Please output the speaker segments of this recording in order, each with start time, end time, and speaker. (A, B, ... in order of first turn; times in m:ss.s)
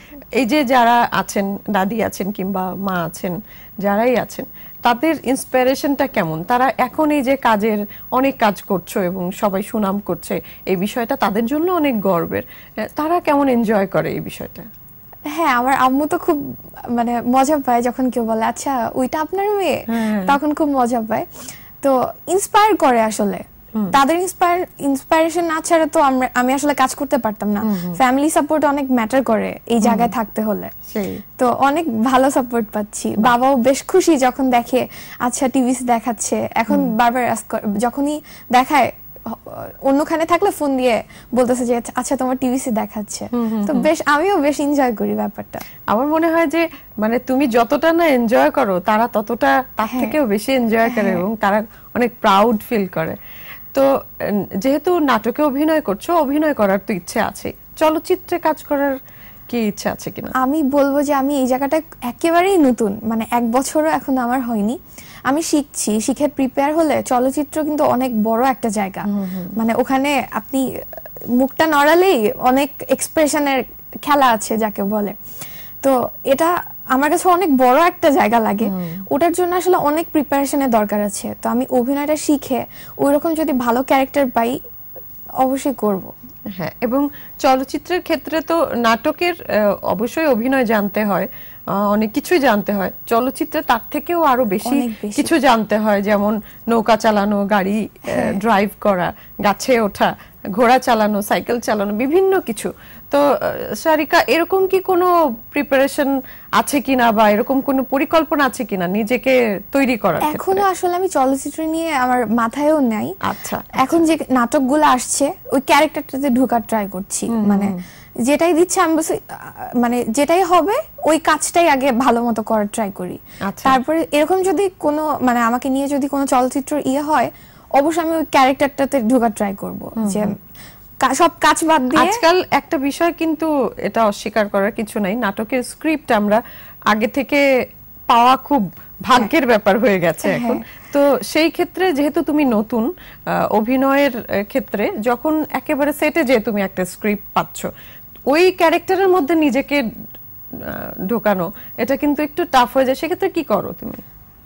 0:00.4-0:12.4 A
0:13.0-0:14.7 A
0:15.3-0:16.4 B
0:16.9-0:30.7 B
0:19.9-0:20.4 A
0:27.6-0:28.0 A
0:29.8-0:30.1 A
0:30.9-0:31.2 A
0:31.4-0:45.6 B
0:43.4-0:43.9 A
0:45.9-0:53.2 A
0:49.9-0:50.2 B
0:50.8-0:51.2 B
0:54.6-0:58.9 A
0:59.5-1:00.4 A
1:00.4-1:04.8 B
1:05.3-1:10.6 B
1:09.1-1:09.5 A
1:11.4-1:15.2 B
1:15.8-1:24.6 B
1:18.6-1:19.0 A
1:25.4-1:26.1 B
1:26.6-1:29.4 A
1:29.9-1:31.3 A
1:31.8-1:50.6 A
1:34.6-1:35.3 B
1:38.1-1:38.4 B
1:50.3-1:53.1 B
1:53.2-1:54.0 A
1:53.8-1:57.7 B
1:57.3-1:57.8 A
1:58.3-2:10.3 B
2:03.4-2:03.8 A
2:10.0-2:10.3 A
2:11.0-2:12.2 B
2:12.0-2:17.4 A
2:18.1-2:22.9 A
2:20.2-2:20.6 B
2:23.5-2:27.7 A
2:28.3-2:29.8 A
2:30.6-2:34.0 A